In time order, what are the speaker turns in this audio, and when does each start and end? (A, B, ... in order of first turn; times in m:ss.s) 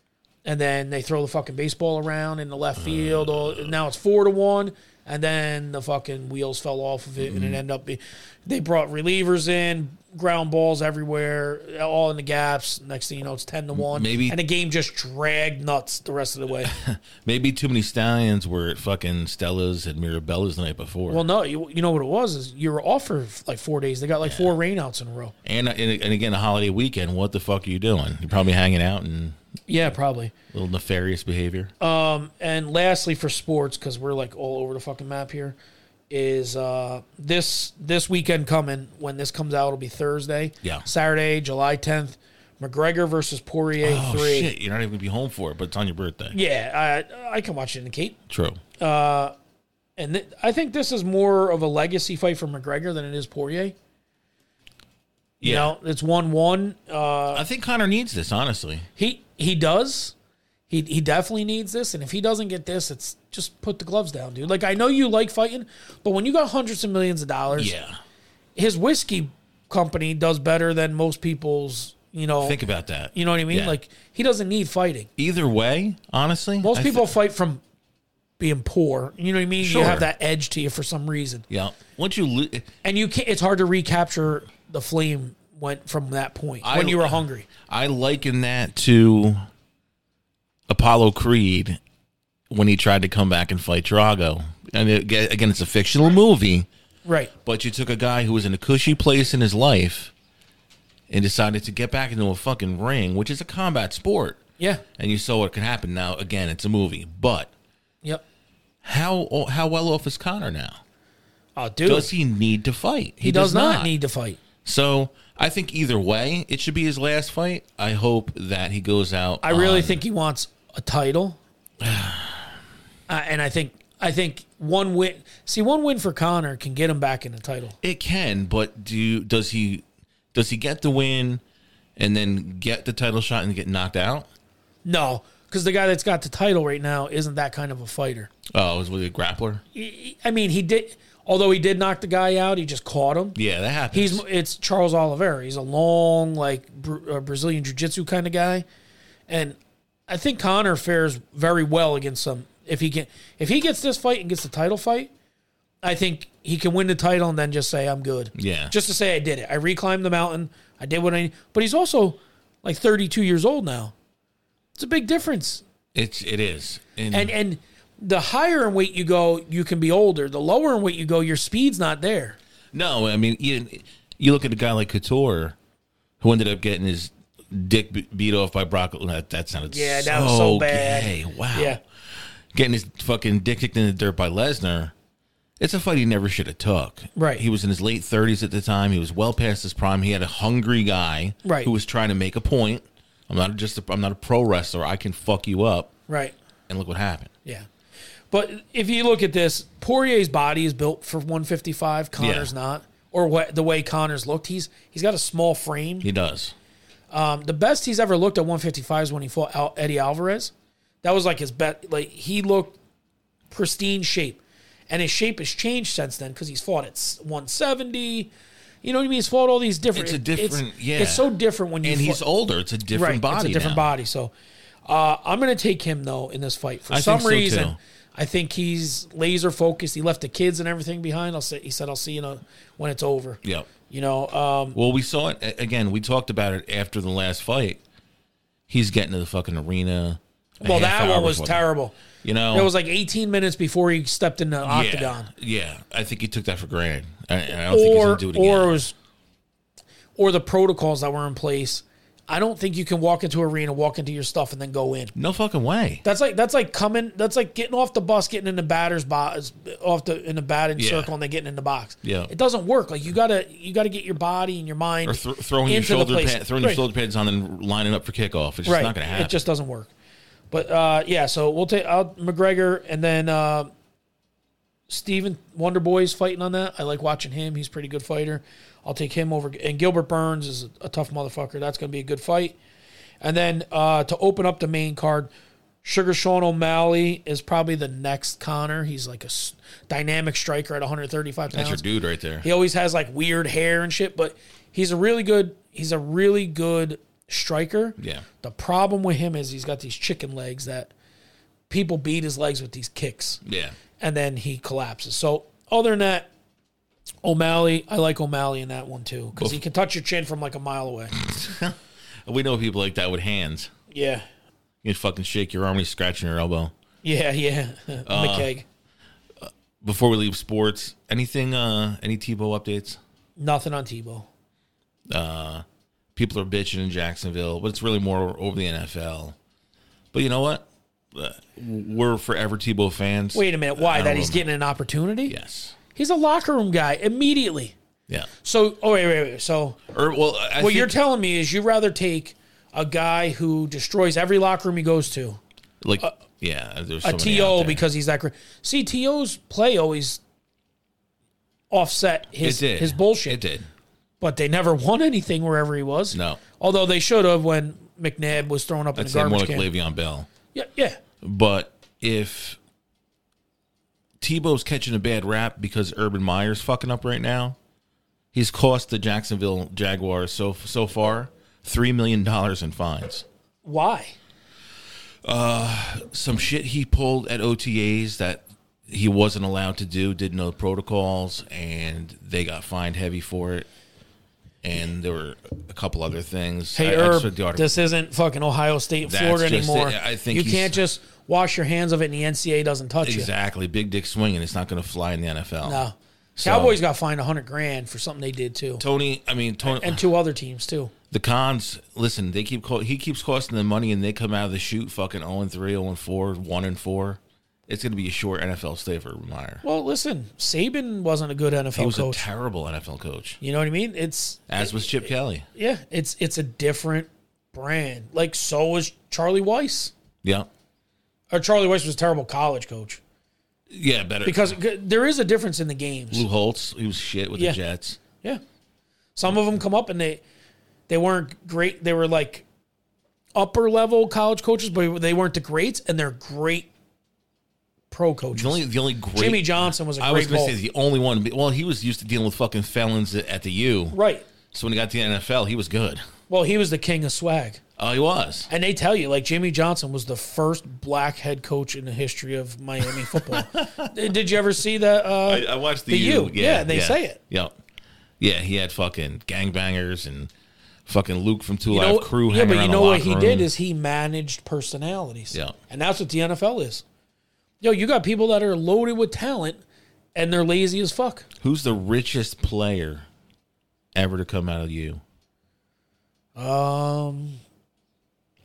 0:00.4-0:16.7 A
0:02.8-0:03.8 B
0:07.2-0:07.6 B
0:13.7-0:14.4 B
0:16.6-0:21.2 B
0:21.1-0:25.3 A
0:24.2-0:24.5 B
0:25.4-0:29.4 B
0:29.7-0:30.3 A
0:30.5-0:31.7 B
0:31.8-0:35.6 A
0:36.1-0:44.5 A
0:43.8-0:46.4 B
0:46.3-0:48.2 A
0:48.3-0:48.6 B
0:48.8-0:49.3 A
0:50.0-0:53.8 A
0:55.4-0:57.4 A
0:55.4-0:55.7 B
0:57.3-0:58.9 B
0:59.0-1:00.1 A
1:00.7-1:07.7 A
1:07.6-1:08.0 B
1:08.6-1:12.6 A
1:12.4-1:13.8 B
1:13.1-1:15.1 A
1:15.2-1:17.1 B
1:16.6-1:17.6 A
1:18.4-1:21.5 A
1:19.6-1:20.1 B
1:21.5-1:22.7 B
1:22.8-1:27.5 A
1:26.6-1:29.4 B
1:30.7-1:31.8 B
1:32.5-1:36.7 B
1:37.0-1:37.3 A
1:37.4-1:40.1 B
1:41.1-1:44.4 B
1:45.0-1:47.5 B
1:48.8-1:50.8 B
1:51.6-1:52.1 A
1:51.8-1:53.9 B
1:53.2-1:54.4 A
1:54.6-2:00.0 B
1:59.4-2:01.4 A
2:01.8-2:02.5 B
2:03.1-2:07.8 A
2:07.8-2:11.4 B
2:12.0-2:14.3 B
2:14.8-2:18.3 A
2:18.5-2:19.6 B
2:19.7-2:23.4 A
2:23.4-2:24.2 B
2:23.9-2:28.6 A
2:29.3-2:29.6 A
2:30.1-2:35.1 A
2:35.8-2:43.9 A
2:38.4-2:38.7 B
2:44.8-2:45.6 A
2:45.9-2:47.3 B
2:47.1-2:52.4 A
2:52.7-2:55.6 B
2:56.2-3:01.8 B
2:59.7-3:01.8 A
3:02.5-3:04.9 B
3:05.6-3:15.9 B
3:07.2-3:07.4 A
3:11.4-3:11.7 A
3:16.1-3:16.4 A
3:16.7-3:17.3 B
3:18.3-3:26.1 A
3:22.2-3:22.5 B
3:26.0-3:26.6 B
3:27.1-3:32.8 A
3:33.5-3:38.3 A
3:38.8-3:42.2 A
3:39.9-3:43.9 B
3:42.9-3:44.3 A
3:44.9-3:54.8 A
3:46.9-3:47.8 B
3:53.4-3:53.7 B
3:54.7-3:57.8 B
3:58.7-4:01.6 B
4:00.6-4:02.0 A
4:02.2-4:02.7 B
4:02.5-4:05.3 A
4:04.6-4:08.8 B
4:07.7-4:08.9 A
4:10.2-4:15.1 A
4:15.2-4:16.0 B
4:16.0-4:26.8 A
4:20.8-4:21.1 B
4:22.0-4:22.3 B
4:25.0-4:29.4 B
4:28.6-4:29.9 A
4:30.5-4:33.7 A
4:34.9-4:42.6 A
4:43.2-4:45.3 A
4:45.8-4:51.8 A
4:51.5-4:52.5 B
4:52.4-5:00.9 A
4:58.0-4:58.3 B
5:01.7-5:03.4 A
5:03.4-5:03.8 B
5:04.0-5:06.3 A
5:07.2-5:11.1 A
5:11.1-5:13.7 B
5:13.9-5:14.2 A
5:14.8-5:16.7 B
5:17.0-5:18.6 A
5:18.1-5:18.5 B
5:19.4-5:23.0 B
5:23.4-5:24.3 A
5:25.1-5:25.6 B
5:26.2-5:29.4 B
5:30.1-5:34.5 B
5:33.3-5:35.4 A
5:35.3-5:35.8 B
5:36.0-5:37.8 A
5:38.4-5:39.8 A
5:39.9-5:40.9 B
5:40.6-5:45.4 A
5:45.8-5:47.8 B
5:47.0-5:50.2 A
5:51.7-5:53.4 A
5:52.4-5:53.7 B
5:54.2-5:59.7 A
5:56.1-5:56.4 B
5:59.0-6:00.3 B
6:00.5-6:01.0 A
6:01.2-6:02.6 B
6:04.2-6:07.6 B
6:08.3-6:13.2 B
6:13.6-6:14.2 A
6:15.2-6:23.7 B
6:24.6-6:27.7 B
6:26.8-6:33.3 A
6:29.0-6:30.8 B
6:33.0-6:35.8 B
6:35.6-6:38.8 A
6:36.4-6:36.8 B
6:38.8-6:40.0 B
6:39.6-6:40.9 A
6:41.1-6:49.6 B
6:49.6-6:52.3 A
6:51.8-6:53.4 B
6:53.4-6:59.9 A
6:54.5-6:55.5 B
7:00.2-7:00.5 B
7:01.3-7:03.0 A
7:03.7-7:04.6 B
7:04.2-7:06.3 A
7:06.1-7:08.0 B
7:09.2-7:10.2 A
7:10.9-7:12.4 A
7:13.4-7:16.7 A
7:17.9-7:18.6 A
7:18.3-7:24.0 B
7:19.2-7:20.6 A
7:23.9-7:24.2 A
7:24.5-7:26.0 B
7:26.3-7:27.6 A
7:27.8-7:28.5 B
7:28.5-7:37.2 A
7:33.0-7:33.9 B
7:35.2-7:37.6 B
7:38.2-7:40.3 B
7:40.9-7:43.5 B
7:41.7-7:46.8 A
7:45.3-7:45.6 B
7:47.6-7:49.6 A
7:50.2-7:51.3 A
7:51.4-7:53.1 B
7:53.9-7:55.0 B
7:56.4-7:57.4 A